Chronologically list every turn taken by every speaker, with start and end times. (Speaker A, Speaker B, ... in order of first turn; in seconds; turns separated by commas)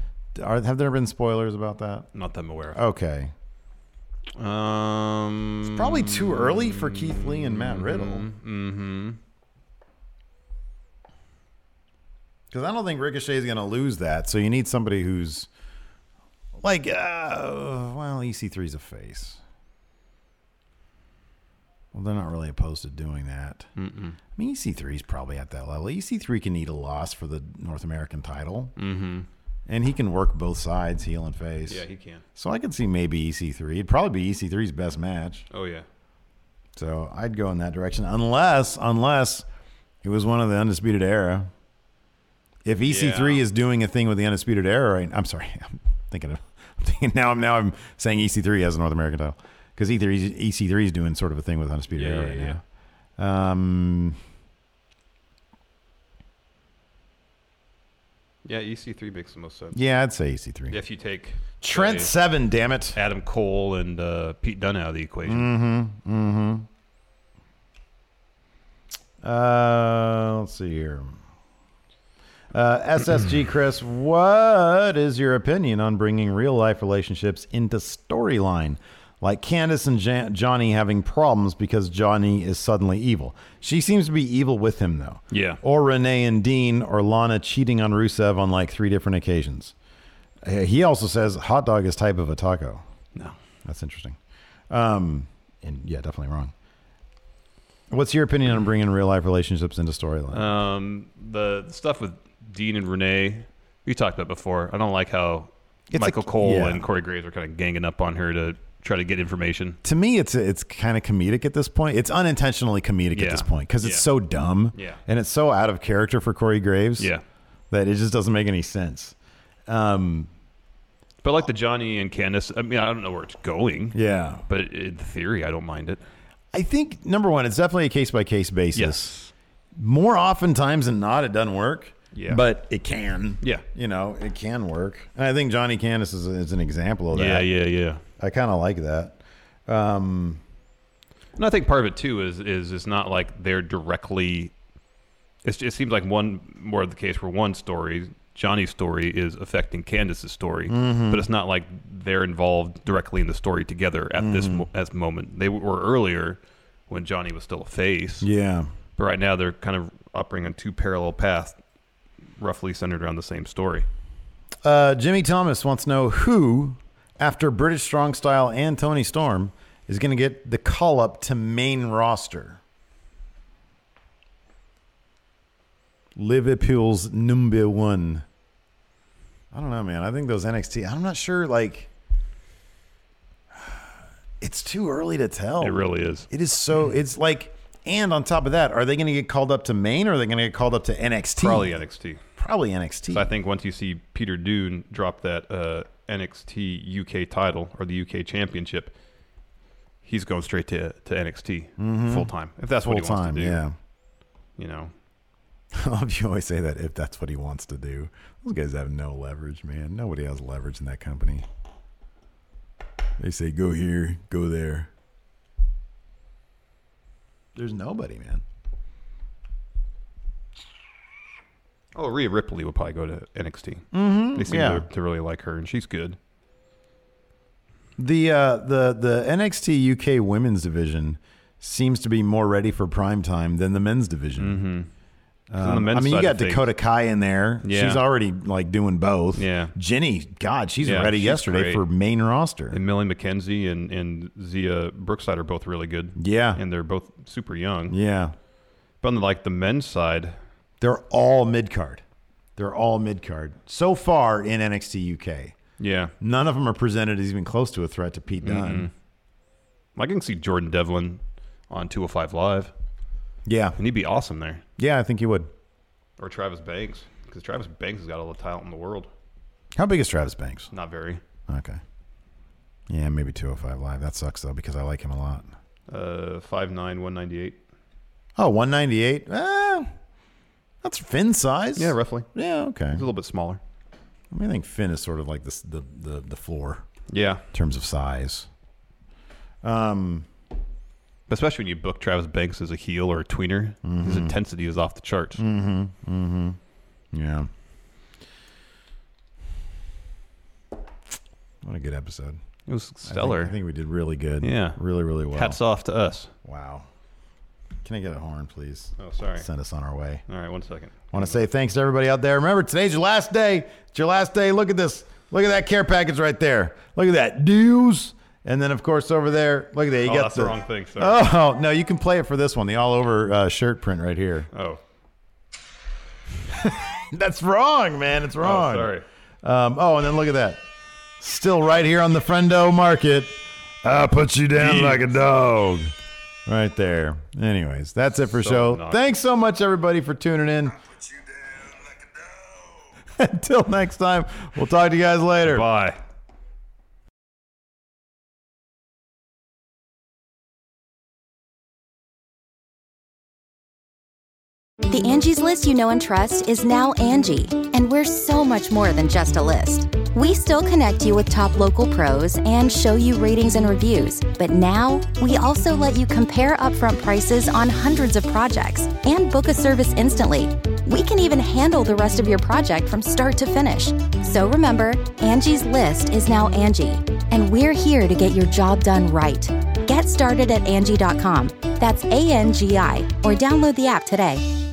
Speaker A: 0.3-2.1, Speaker B: 2.1-2.8, Speaker A: 2.7-3.3, Speaker B: 4.4-9.2, Speaker A: 5.7-8.3, Speaker A: 12.5-15.5, Speaker A: 16.6-19.4, Speaker A: 21.9-23.7, Speaker B: 23.8-24.2, Speaker A: 24.4-28.7, Speaker B: 28.8-29.3, Speaker A: 29.7-35.5, Speaker B: 31.7-32.2, Speaker B: 35.5-35.9, Speaker A: 36.8-39.4, Speaker A: 40.0-41.5, Speaker A: 42.6-52.6, Speaker B: 42.8-43.4, Speaker B: 51.9-52.6, Speaker A: 53.2-54.2, Speaker B: 58.4-59.8, Speaker A: 59.7-60.8, Speaker B: 60.7-62.1, Speaker A: 61.6-63.0, Speaker B: 62.9-65.5, Speaker A: 65.2-66.7, Speaker A: 69.2-71.1, Speaker A: 72.5-89.7, Speaker B: 85.3-85.6, Speaker A: 90.4-92.8, Speaker A: 93.6-94.2, Speaker A: 94.7-96.5, Speaker A: 97.9-100.5, Speaker B: 100.3-109.8, Speaker A: 105.9-106.8, Speaker A: 109.8-117.1, Speaker B: 113.1-114.1, Speaker B: 114.7-115.0, Speaker B: 117.0-117.2, Speaker A: 117.7-119.1, Speaker A: 119.7-120.3, Speaker B: 121.2-126.0, Speaker A: 123.9-124.4, Speaker A: 126.5-129.2, Speaker B: 128.7-129.3, Speaker A: 129.8-137.5, Speaker B: 132.1-132.4, Speaker B: 137.1-138.0, Speaker A: 138.2-140.4, Speaker B: 141.4-144.5, Speaker B: 145.4-158.3, Speaker A: 150.7-151.2, Speaker A: 154.2-154.7, Speaker A: 158.2-158.7, Speaker B: 159.0-161.6, Speaker B: 162.4-163.9, Speaker A: 164.6-172.6, Speaker A: 176.2-178.2, Speaker A: 179.5-181.9, Speaker A: 184.4-191.8, Speaker B: 185.6-186.3, Speaker B: 191.4-192.2, Speaker A: 192.4-193.3, Speaker B: 193.1-198.9, Speaker B: 200.0-203.6, Speaker A: 201.8-203.7, Speaker B: 204.6-204.9, Speaker A: 205.7-211.4, Speaker A: 213.2-214.9, Speaker A: 217.6-218.4, Speaker B: 221.9-226.2, Speaker A: 223.9-224.9, Speaker A: 228.0-234.6, Speaker B: 234.4-234.9, Speaker A: 235.5-242.8, Speaker B: 235.6-236.7, Speaker B: 237.6-238.0, Speaker B: 239.3-239.7, Speaker B: 240.8-241.9, Speaker B: 242.7-247.9, Speaker A: 246.2-246.6, Speaker A: 247.9-248.3, Speaker B: 249.0-250.4, Speaker A: 250.8-252.0, Speaker A: 252.6-255.6, Speaker B: 255.8-256.1, Speaker A: 256.2-258.9, Speaker B: 258.4-258.9, Speaker B: 259.9-262.7, Speaker A: 263.4-263.8, Speaker B: 263.8-264.6, Speaker A: 264.8-265.5, Speaker B: 266.2-269.1, Speaker A: 269.8-270.7, Speaker B: 270.7-271.2, Speaker A: 271.5-271.8, Speaker A: 272.9-275.5, Speaker B: 275.9-277.6, Speaker A: 278.4-279.9, Speaker A: 280.8-283.1, Speaker B: 281.8-282.3, Speaker B: 282.9-283.6, Speaker A: 284.3-286.8, Speaker B: 287.1-287.4, Speaker A: 287.5-288.5, Speaker A: 289.6-290.2, Speaker B: 291.3-295.4, Speaker A: 293.8-294.4, Speaker A: 295.4-296.6, Speaker A: 297.1-297.5, Speaker A: 301.6-302.4, Speaker B: 302.7-303.6, Speaker A: 303.1-305.6, Speaker B: 304.4-304.8, Speaker B: 305.3-306.3, Speaker A: 306.4-306.9, Speaker A: 307.8-310.2, Speaker B: 309.0-309.5, Speaker B: 310.3-311.4, Speaker A: 311.1-324.5, Speaker B: 320.0-321.2, Speaker B: 324.5-324.8, Speaker A: 326.6-330.6, Speaker B: 328.4-329.1, Speaker A: 331.2-335.9, Speaker B: 334.6-335.2, Speaker A: 336.4-340.8, Speaker B: 338.4-339.0, Speaker A: 341.6-342.3, Speaker A: 343.1-345.6, Speaker B: 345.4-346.0, Speaker C: 354.9-384.4